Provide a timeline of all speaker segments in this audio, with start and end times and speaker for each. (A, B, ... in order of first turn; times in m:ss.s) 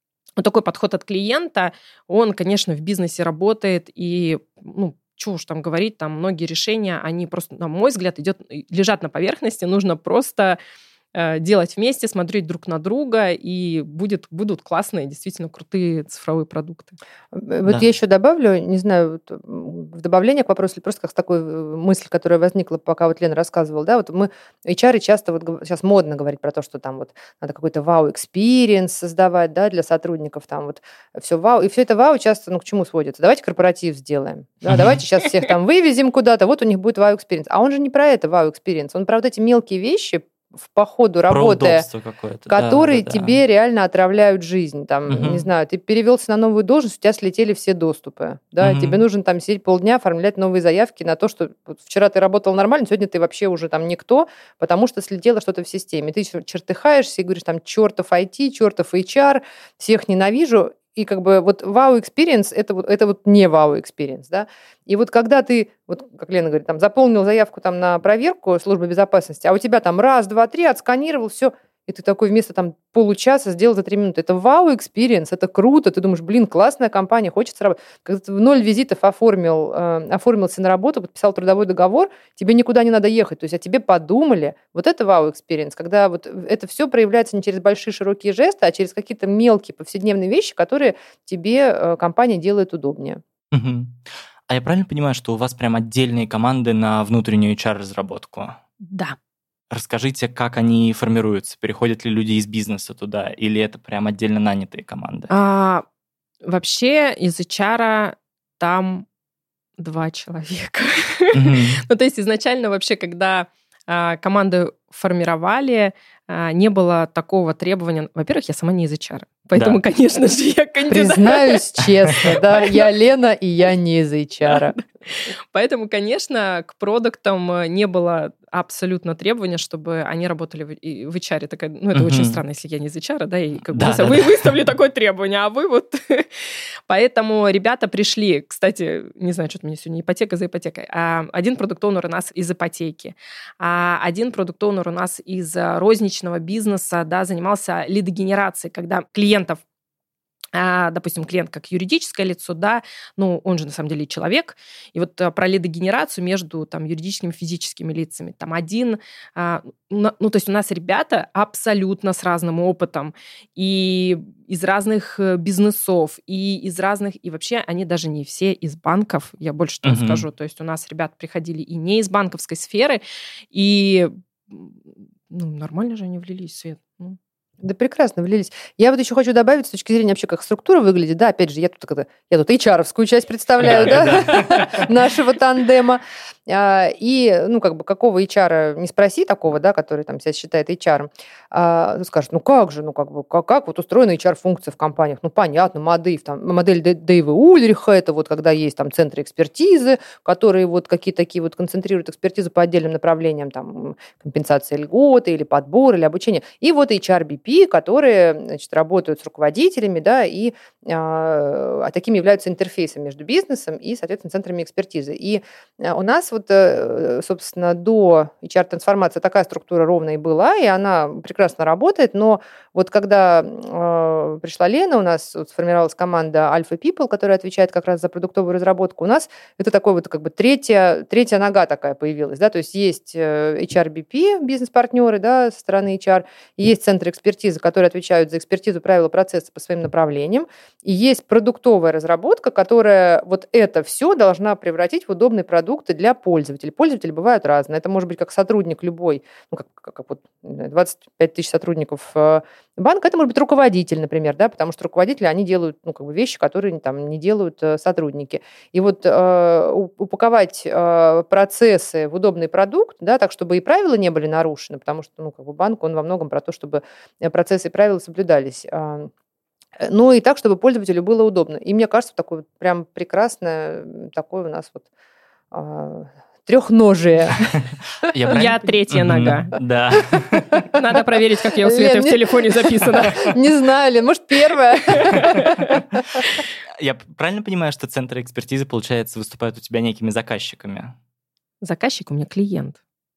0:00.4-0:10.6 A
0:11.1-0:17.0 A
0:17.3-0:41.9 B
0:34.7-0:35.0 C
0:41.3-0:43.4 C
0:42.5-1:33.2 B
0:45.1-0:45.5 C
0:48.6-0:49.0 C
1:33.5-1:38.6 C
1:38.8-1:39.2 A
1:39.7-1:45.3 C
1:45.3-1:45.8 A
1:46.4-1:49.1 A
1:49.8-2:01.6 A
1:51.3-1:51.8 C
2:00.9-2:04.8 B
2:02.2-2:02.9 A
2:04.5-2:16.3 A
2:11.9-2:12.4 C
2:13.7-2:14.5 C
2:16.9-2:29.6 A
2:30.5-2:53.0 A
2:49.8-2:50.2 C
2:53.5-2:57.2 A
2:57.6-4:29.1 B
3:03.6-3:04.8 C
4:29.8-4:34.8 B
4:35.5-4:38.1 B
4:37.5-4:40.6 C
4:38.3-4:39.5 A
4:40.7-4:43.4 A
4:41.6-4:45.5 B
4:44.9-4:45.8 A
4:46.8-4:51.0 C
4:51.6-4:52.8 A